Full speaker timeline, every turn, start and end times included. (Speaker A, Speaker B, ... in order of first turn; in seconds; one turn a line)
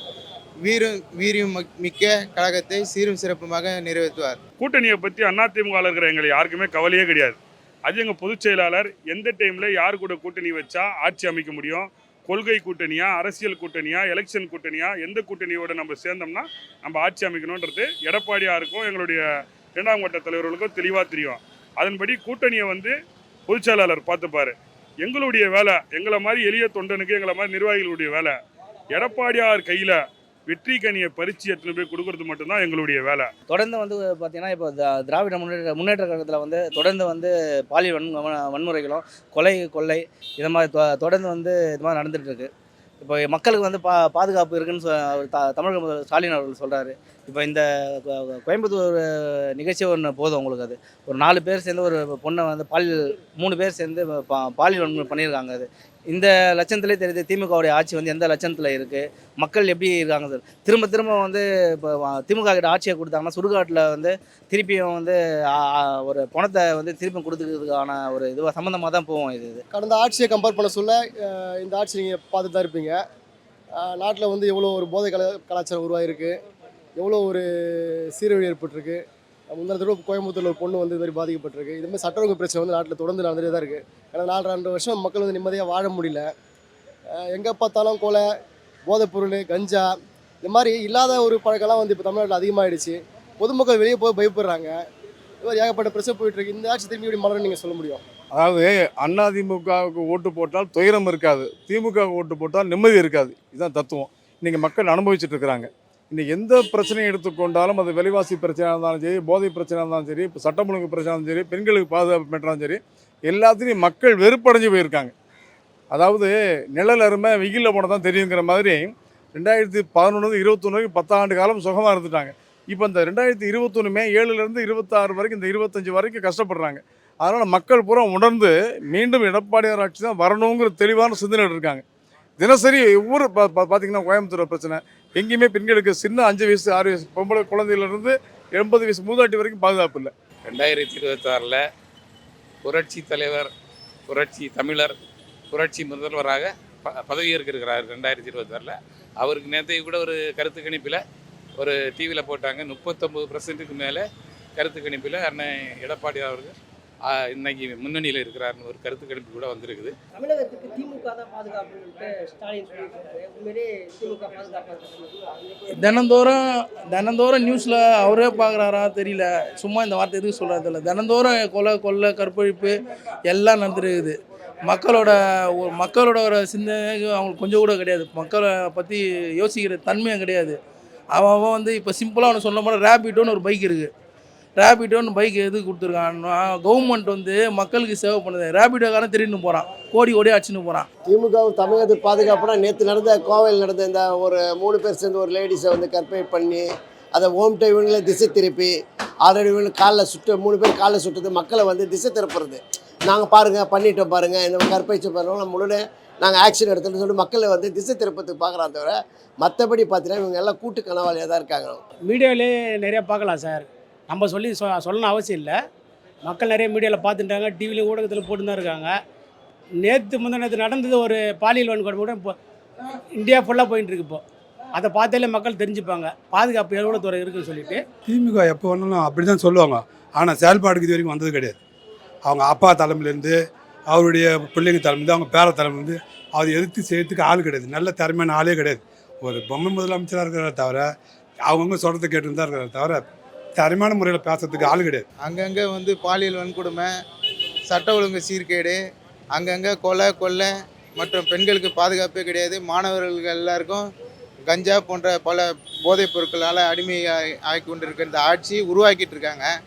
Speaker A: 0.6-4.4
Speaker B: 4.6-19.2
Speaker B: 19.7-22.9
Speaker B: 23.5-28.4
Speaker B: 28.9-33.3
Speaker C: 33.5-42.5
Speaker C: 43.0-69.6
Speaker D: 69.7-73.0
Speaker D: 73.8-76.3
Speaker D: 77.0-79.0
Speaker D: 79.5-86.3
Speaker D: 87.2-88.2
Speaker D: 88.9-89.9
Speaker D: 90.4-94.8
Speaker D: 95.4-98.0
Speaker E: 98.3-115.1
Speaker E: 115.9-131.8
Speaker E: 132.4-140.1
Speaker F: 140.4-141.6
Speaker F: 142.6-143.5
Speaker F: 144.1-145.0
Speaker F: 145.5-151.0
Speaker F: 151.6-154.1
Speaker F: 154.6-156.5
Speaker F: 157.1-159.9
Speaker G: 160.1-165.1
Speaker H: 165.7-172.8
Speaker H: 173.3-180.6
Speaker H: 181.1-183.9
Speaker H: 184.6-190.9
Speaker I: 191.1-211.8
Speaker J: 212.1-215.6
Speaker J: 216.2-218.9
Speaker J: 219.8-222.3
Speaker J: 223.2-224.2
Speaker J: 224.8-227.8
Speaker K: 228.1-231.6
Speaker K: 232.3-233.3
Speaker K: 233.9-240.8
Speaker K: 241.5-243.0
Speaker K: 243.6-245.1
Speaker A: 245.2-246.9
Speaker A: 247.7-248.8
Speaker A: 249.3-253.9
Speaker A: 254.4-259.5